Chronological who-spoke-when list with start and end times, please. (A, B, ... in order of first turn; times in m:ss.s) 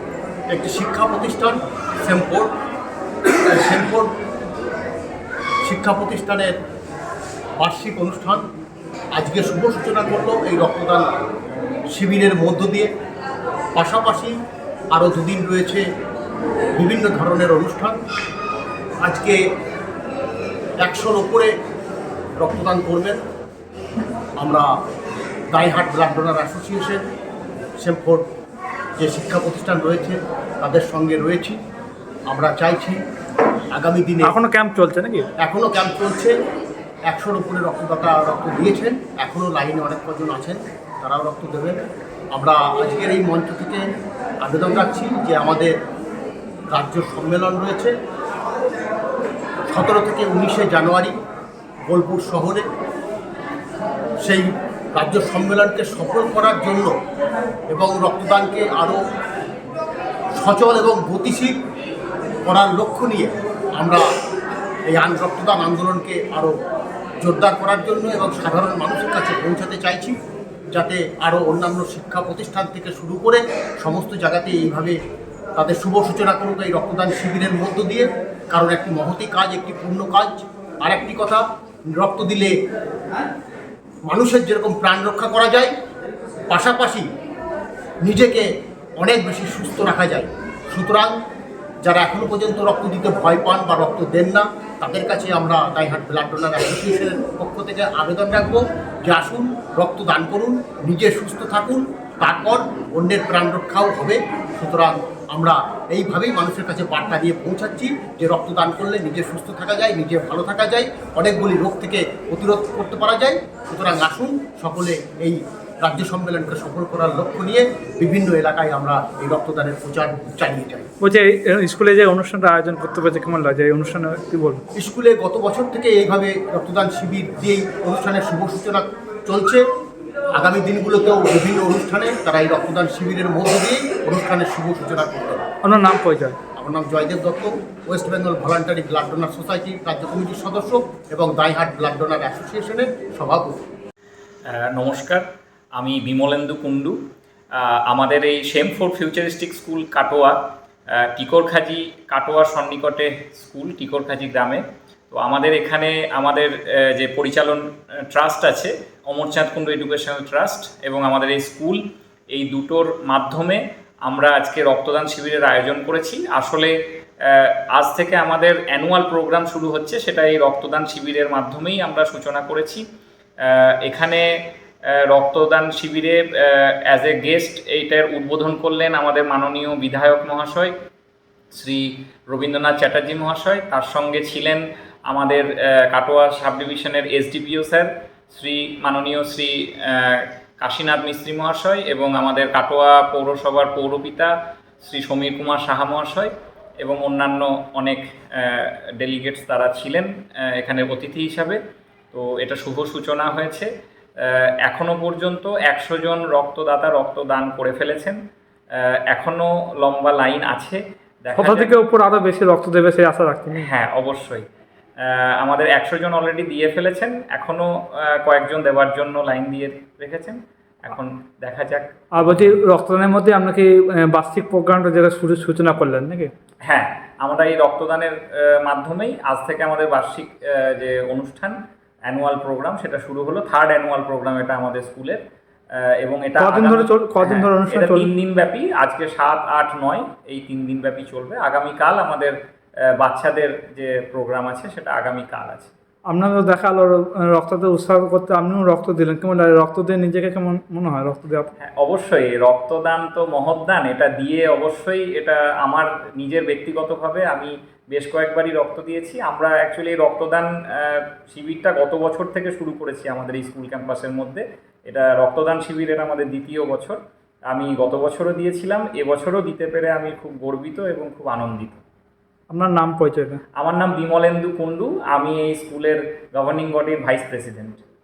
0:00.5-0:02.5 A
0:03.5-0:04.1 A
0:05.6-0:06.5 A
0:07.6-0:08.4 A
0:09.1-0:11.1 A
0:11.9-0:12.9 A
0:13.8-0:14.3 A
0:14.9-0:15.8 A
0:16.8-0:18.0 A
0:19.0-0:19.4 A
0:20.8-0:21.5 A
0:22.4-0:23.2 A
0:24.4-0:24.7 A
0:25.5-0:27.0 A
0:27.8-0:28.2 A
0:29.0-0:31.6 A
0:32.3-0:33.0 A
0:33.7-0:34.4 A
0:34.2-0:35.3 B
0:35.4-0:36.3 A
0:37.1-0:43.8 A
0:44.4-0:45.7 A
0:46.7-0:47.9 A
0:49.7-0:51.2 A
0:51.9-0:52.7 A
0:54.2-0:56.9 A
0:57.7-0:59.0 A
1:00.4-1:01.5 A
1:02.5-1:04.0 A
1:04.9-1:06.5 A
1:07.2-1:10.2 A
1:10.7-1:15.0 A
1:15.6-1:22.5 A
1:24.1-1:25.7 A
1:26.5-1:27.1 A
1:28.0-1:28.5 A
1:29.0-1:31.2 A
1:31.8-2:00.8 A
2:01.0-2:04.6 B
2:04.8-2:09.6 A
2:10.4-2:15.4 A
2:15.6-2:16.4 B
2:16.6-2:23.6 A
2:24.5-2:25.2 C
2:25.8-2:27.0 C
2:27.6-2:30.4 C
2:31.0-2:41.8 C
2:42.3-2:46.7 C
2:47.2-2:52.8 C
2:53.4-2:54.2 C
2:55.1-3:00.7 C
3:01.6-3:14.3 C
3:14.8-3:16.3 C
3:16.8-3:21.6 C
3:22.1-3:23.7 C
3:24.2-3:28.2 C
3:28.8-3:31.7 C
3:31.3-3:33.7 B
3:33.6-3:34.4 C
3:35.0-3:42.6 C
3:42.2-3:46.3 B
3:46.7-3:51.6 C
3:52.1-3:55.2 C
3:55.8-4:02.3 C
3:56.4-3:58.1 B
4:03.0-4:05.7 C
4:06.1-4:11.5 B
4:11.6-4:27.0 C
4:27.5-4:31.8 C
4:32.5-4:33.4 B
4:33.6-4:37.8 C